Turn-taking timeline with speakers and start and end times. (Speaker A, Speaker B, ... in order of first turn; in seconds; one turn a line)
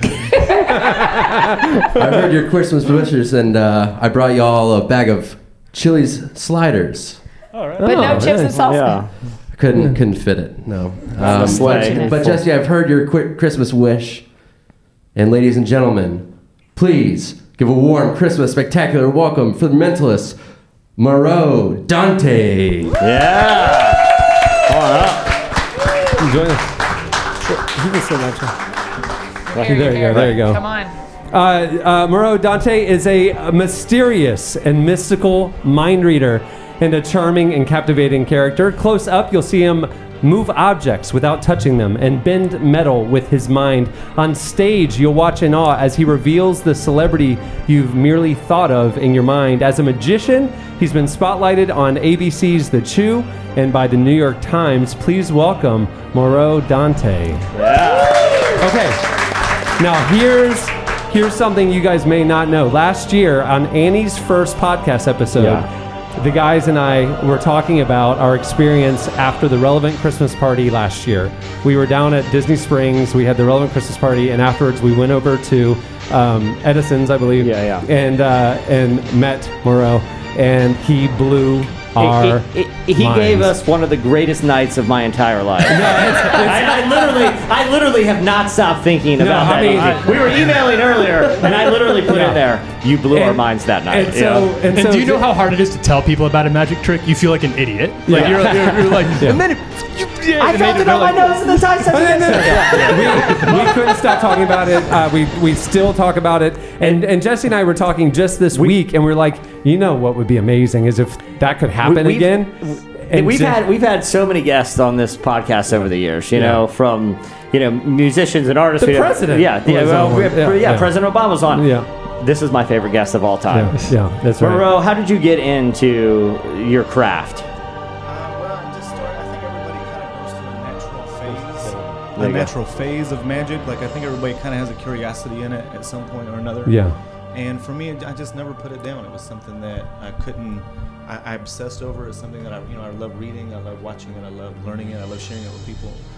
Speaker A: 0.3-1.1
Speaker B: 1.9-7.2
Speaker A: 7.8-9.0
Speaker C: 7.8-8.6
Speaker D: 8.6-9.1
Speaker B: 9.5-14.3
Speaker A: 11.2-12.4
Speaker D: 11.2-12.3
Speaker B: 15.1-20.4
Speaker B: 21.0-23.0
Speaker D: 23.0-25.4
Speaker C: 26.2-26.7
Speaker C: 27.4-28.6
Speaker A: 29.5-30.9
Speaker D: 29.5-30.4
Speaker C: 29.6-30.6
Speaker C: 31.3-57.5
Speaker D: 57.5-58.6
Speaker C: 58.5-59.0
Speaker C: 59.8-83.5
Speaker D: 65.4-65.7
Speaker D: 77.4-77.9
Speaker D: 82.0-94.5
Speaker C: 85.7-87.2
Speaker C: 89.2-90.6
Speaker C: 91.4-92.4
Speaker C: 93.1-95.3
Speaker E: 94.7-103.6
Speaker C: 98.0-99.4
Speaker D: 98.1-99.0
Speaker D: 100.4-103.7
Speaker C: 101.9-113.6
Speaker D: 111.8-127.5
Speaker C: 116.3-116.6
Speaker C: 118.8-121.9
Speaker C: 123.5-124.7
Speaker F: 128.0-146.0
Speaker D: 132.2-132.5
Speaker C: 136.7-137.0